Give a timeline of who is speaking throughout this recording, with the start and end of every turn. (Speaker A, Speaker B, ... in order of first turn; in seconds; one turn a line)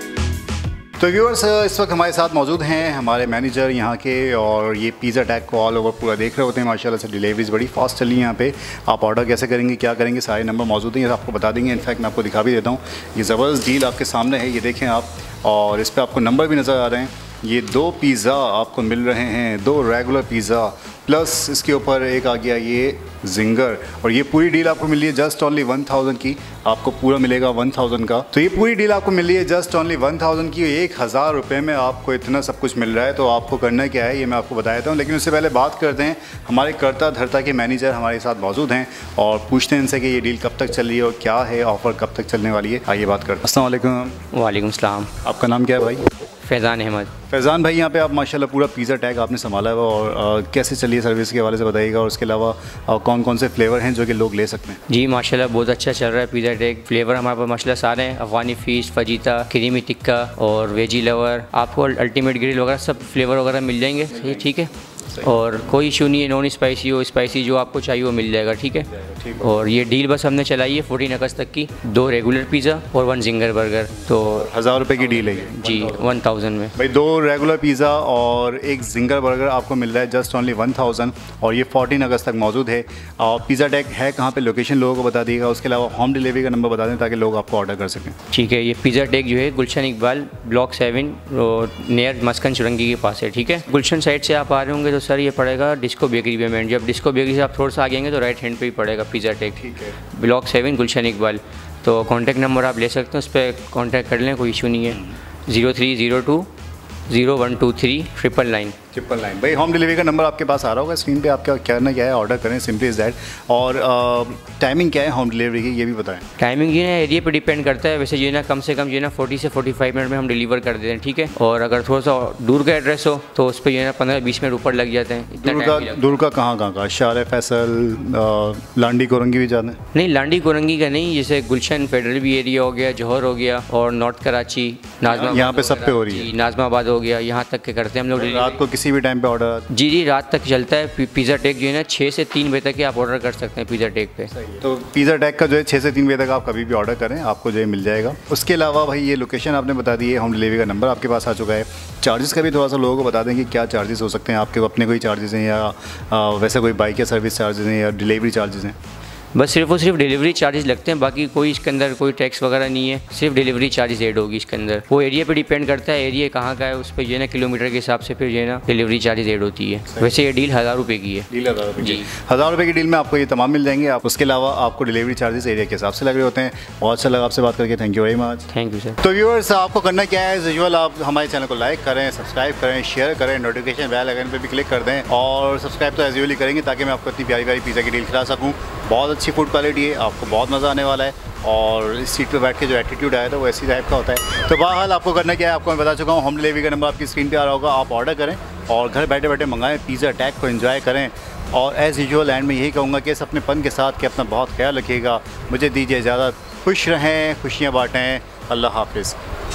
Speaker A: 1.0-44.2
Speaker B: 44.3-45.1
Speaker A: 45.2-46.0
Speaker B: 46.4-47.1
Speaker A: 47.3-54.8
Speaker B: 54.9-74.5
Speaker A: 65.2-65.5
Speaker A: 69.0-69.7
Speaker A: 74.2-76.1
Speaker B: 75.3-76.8
Speaker A: 76.8-88.2
Speaker B: 88.3-106.5
Speaker A: 99.6-100.0
Speaker B: 107.1-108.8
Speaker A: 108.9-116.2
Speaker B: 116.4-126.1
Speaker A: 125.4-129.8
Speaker B: 129.9-138.6
Speaker A: 135.0-136.3
Speaker A: 138.1-139.7
Speaker B: 139.7-144.3
Speaker A: 144.4-158.8
Speaker B: 159.3-172.1
Speaker A: 169.9-170.2
Speaker A: 171.3-178.5
Speaker B: 178.5-179.0
Speaker A: 179.0-209.2